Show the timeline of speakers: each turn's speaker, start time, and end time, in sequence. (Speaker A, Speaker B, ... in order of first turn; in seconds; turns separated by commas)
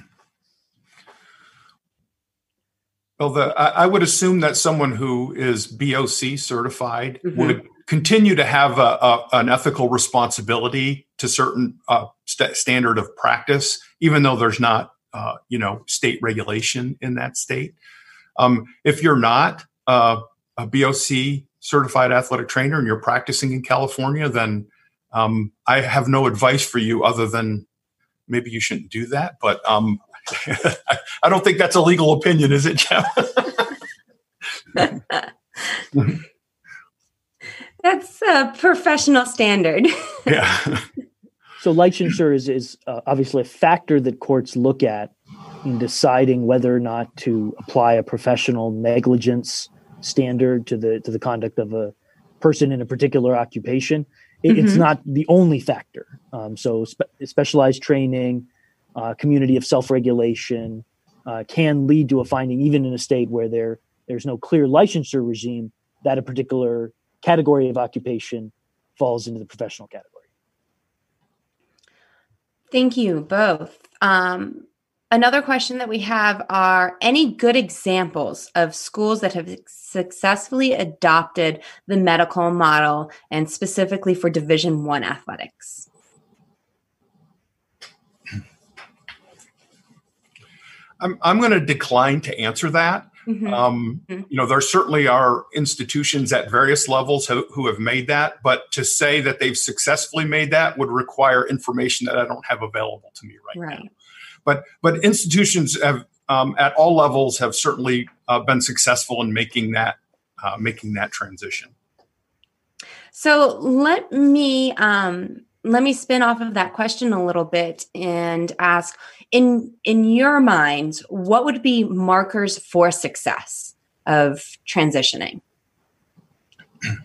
Speaker A: 3.2-17.7, Speaker A: 18.4-27.6, Speaker A: 28.3-33.7, Speaker B: 37.8-40.3, Speaker A: 40.3-40.9, Speaker C: 41.6-45.1, Speaker C: 45.6-70.2, Speaker B: 54.5-54.8, Speaker B: 72.7-85.9, Speaker A: 91.0-103.9, Speaker B: 93.3-93.6, Speaker B: 103.5-103.9, Speaker A: 104.5-111.7, Speaker B: 113.1-125.4